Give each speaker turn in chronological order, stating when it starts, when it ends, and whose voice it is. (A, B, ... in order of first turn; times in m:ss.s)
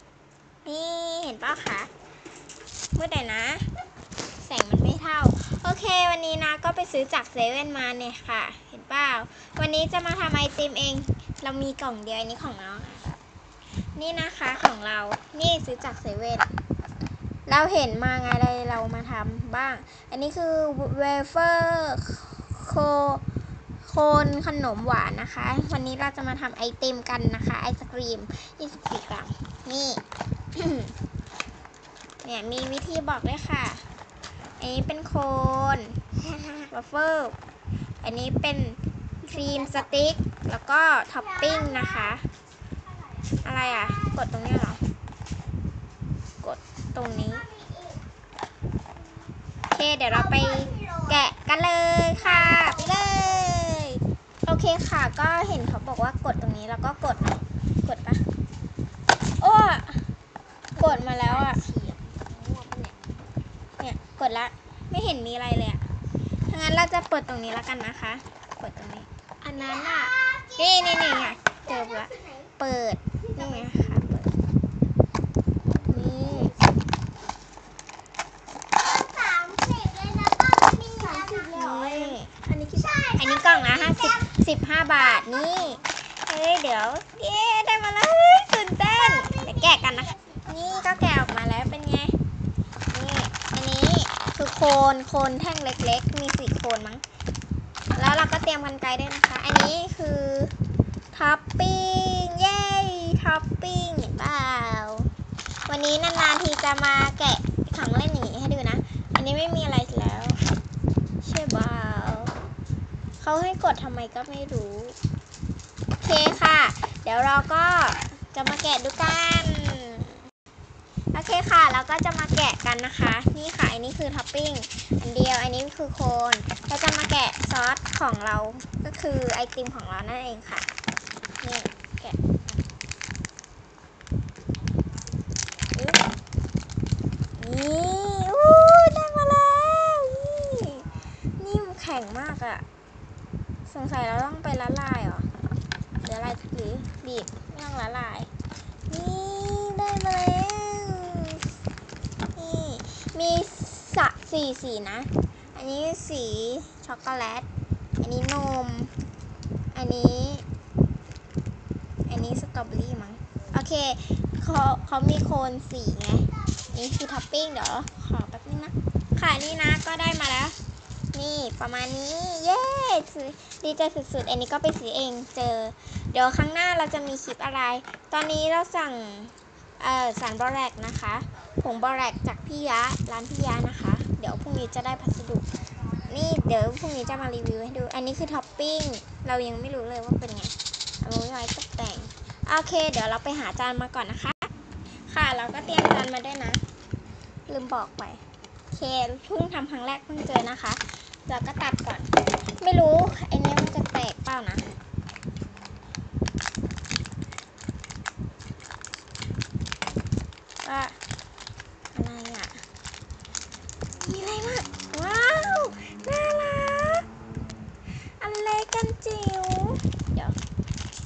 0:00.6-0:01.9 A
0:03.0-0:03.7 A
0:04.4-0:13.2 A
0:14.0-0:16.5 A
0:17.5-0:23.2 A
0:23.8-0:30.0 A
0:30.6-0:30.9 A
0:32.2-0:33.8 A
0:34.6-0:36.0 A
0:36.7-0:37.4 A
0:38.0-0:42.2 A
0:39.3-0:39.9 B
0:41.2-0:42.1 B
0:42.8-0:44.2 B
0:43.4-0:44.8 A
0:46.4-0:47.4 A
0:47.1-0:48.0 B
0:49.7-0:58.2 A
0:50.1-0:51.2 B
0:52.1-0:53.2 B
0:59.4-1:00.0 A
1:00.7-1:03.2 B
1:00.8-1:01.6 A
1:03.8-1:05.8 A
1:06.5-1:14.4 A
1:09.4-1:12.5 B
1:13.2-1:14.0 B
1:15.8-1:16.8 B
1:15.9-1:16.5 A
1:18.8-1:24.3 B
1:21.3-1:22.3 A
1:23.2-1:32.2 A
1:25.0-1:25.8 B
1:29.1-1:30.5 B
1:32.9-1:37.0 A
1:38.0-1:40.5 A
1:41.1-1:45.1 A
1:45.7-1:50.4 A
1:51.2-1:52.3 A
1:53.2-1:55.0 A
1:56.0-2:00.2 A
2:01.1-2:10.7 A
2:11.4-2:12.4 A
2:15.8-2:16.0 A
2:17.4-2:22.6 A
2:23.7-2:25.3 A
2:26.0-2:28.3 A
2:28.9-2:31.4 A
2:32.4-2:37.5 A
2:38.0-2:38.9 A
2:39.7-2:40.4 A
2:42.1-2:50.6 A
2:51.1-3:05.5 A
3:06.0-3:14.5 A
3:15.1-3:16.6 A
3:17.5-3:24.7 A
3:30.6-3:31.0 A
3:31.9-3:32.6 A
3:34.0-3:37.0 A
3:38.2-3:40.4 A